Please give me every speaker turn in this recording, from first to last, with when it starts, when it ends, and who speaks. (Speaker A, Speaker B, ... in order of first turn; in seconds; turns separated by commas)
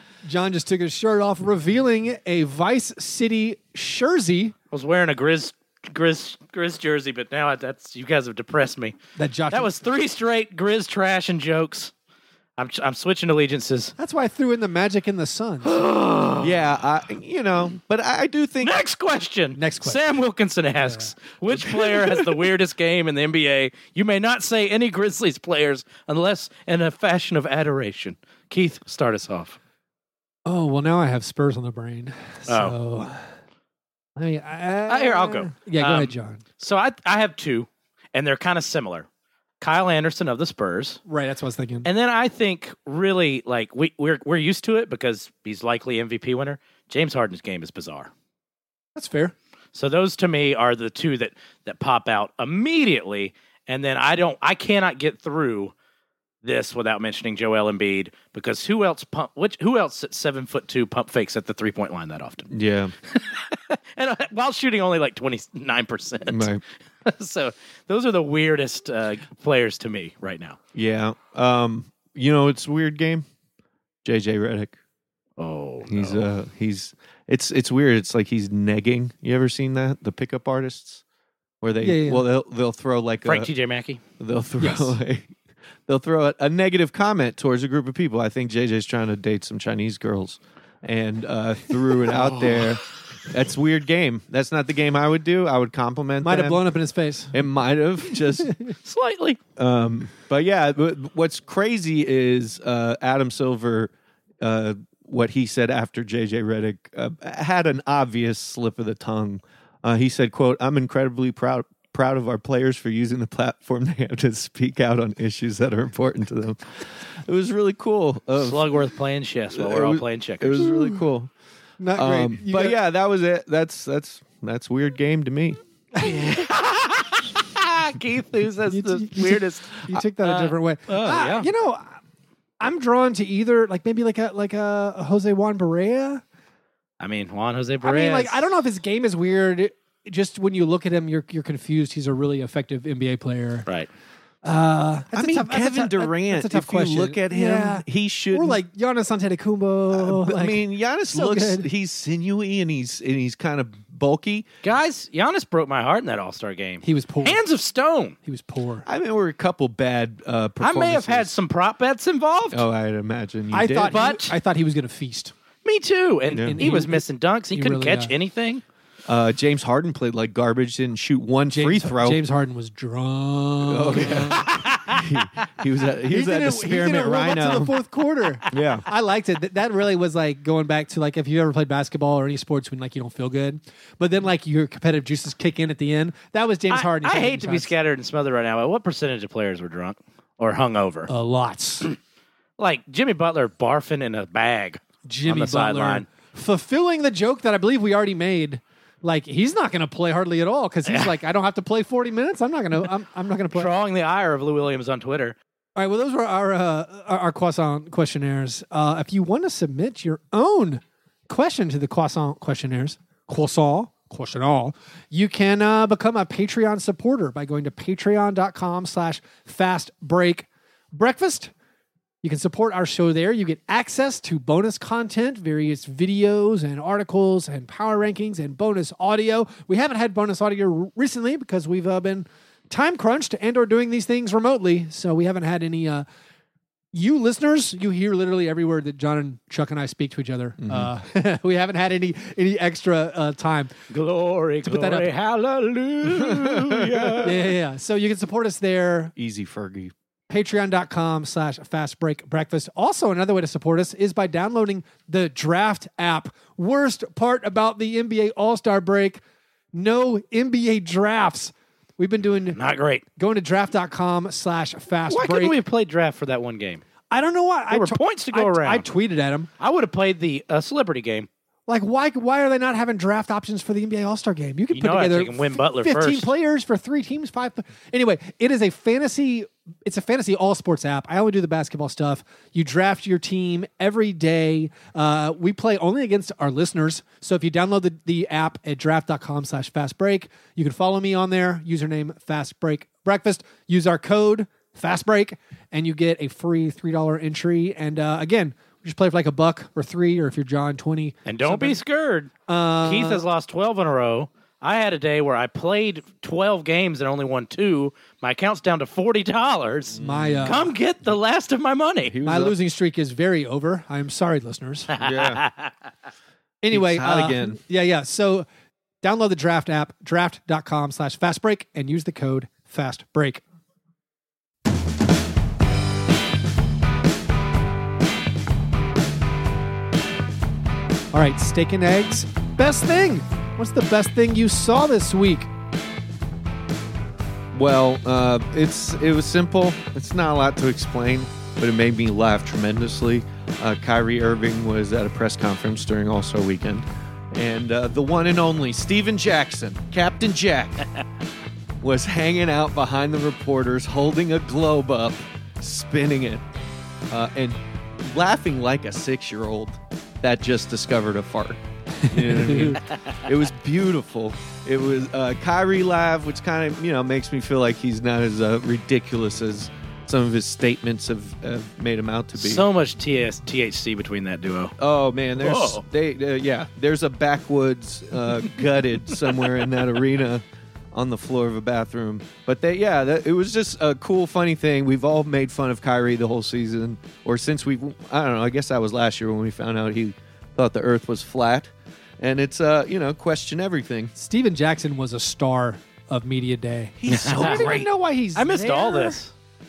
Speaker A: 0.2-4.5, Speaker B: 4.7-8.9, Speaker A: 9.2-9.7, Speaker B: 9.5-11.9, Speaker B: 12.6-13.9, Speaker A: 14.0-15.8, Speaker B: 15.6-16.5, Speaker C: 16.4-18.8, Speaker B: 18.6-29.6, Speaker A: 19.5-20.0, Speaker A: 20.8-21.1, Speaker A: 21.7-22.1, Speaker A: 30.4-33.2, Speaker B: 32.5-32.8, Speaker A: 34.1-36.4, Speaker B: 34.9-39.1, Speaker B: 39.6-41.0, Speaker A: 41.1-41.9, Speaker B: 41.8-48.1, Speaker A: 48.9-49.3, Speaker B: 49.7-55.7, Speaker B: 56.4-62.5, Speaker C: 62.5-62.9, Speaker B: 63.1-66.5, Speaker C: 66.2-66.6, Speaker B: 67.0-70.6, Speaker C: 70.7-73.2, Speaker C: 74.0-74.8, Speaker B: 75.4-76.2, Speaker C: 75.9-81.0, Speaker C: 81.6-83.5, Speaker A: 81.8-82.2, Speaker B: 83.2-84.0, Speaker C: 84.2-85.3, Speaker A: 84.6-84.9, Speaker C: 85.9-96.6, Speaker A: 96.2-97.4, Speaker C: 97.3-98.5, Speaker B: 98.8-99.4, Speaker C: 99.5-118.8, Speaker B: 118.4-120.6, Speaker C: 119.5-121.3, Speaker A: 121.8-122.8, Speaker C: 121.9-125.6, Speaker A: 126.0-126.4, Speaker B: 126.0-131.5, Speaker A: 128.7-132.0, Speaker A: 132.6-136.2, Speaker B: 137.0-138.5, Speaker A: 137.8-143.7, Speaker A: 144.4-151.7, Speaker C: 145.1-148.6, Speaker C: 149.9-154.5, Speaker B: 154.6-158.2, Speaker A: 156.8-157.4, Speaker A: 158.2-158.8, Speaker C: 158.8-161.3, Speaker B: 160.6-162.6, Speaker C: 162.5-164.1, Speaker A: 163.5-165.3, Speaker B: 163.9-164.3, Speaker B: 165.6-168.6, Speaker C: 166.3-166.6, Speaker A: 166.4-168.1, Speaker C: 169.1-172.2, Speaker A: 171.5-174.7, Speaker C: 173.6-177.8, Speaker B: 174.3-175.0, Speaker A: 176.1-187.7, Speaker C: 178.5-178.8, Speaker B: 186.7-191.1, Speaker A: 191.1-191.9, Speaker B: 192.6-196.1, Speaker A: 195.1-203.7, Speaker B: 203.5-205.3, Speaker A: 205.8-221.5, Speaker A: 222.2-236.1, Speaker A: 236.9-243.7, Speaker C: 240.6-240.9, Speaker B: 243.9-247.4, Speaker A: 244.6-245.1, Speaker C: 246.1-247.4, Speaker A: 247.2-249.1, Speaker C: 249.2-249.9, Speaker A: 250.3-259.2, Speaker A: 259.7-262.6, Speaker B: 262.6-263.0, Speaker A: 263.1-265.6, Speaker B: 265.1-266.8, Speaker A: 267.1-269.5, Speaker B: 267.7-268.9, Speaker B: 269.6-271.3, Speaker A: 271.7-301.8, Speaker B: 274.7-276.3, Speaker B: 301.2-302.3, Speaker A: 302.5-303.2, Speaker B: 302.8-312.1, Speaker C: 309.9-310.6, Speaker A: 310.0-310.7, Speaker C: 312.0-312.6, Speaker A: 312.2-314.9, Speaker B: 314.9-315.7, Speaker C: 315.0-315.4, Speaker A: 316.6-318.4, Speaker C: 316.7-317.6, Speaker A: 319.0-323.4, Speaker A: 331.1-335.5, Speaker C: 337.5-350.9, Speaker C: 351.8-356.4, Speaker C: 357.1-372.6, Speaker A: 362.0-362.8, Speaker B: 372.4-374.7, Speaker C: 374.8-394.1, Speaker B: 375.4-375.8, Speaker A: 394.1-399.2, Speaker C: 397.0-397.9, Speaker B: 397.1-399.3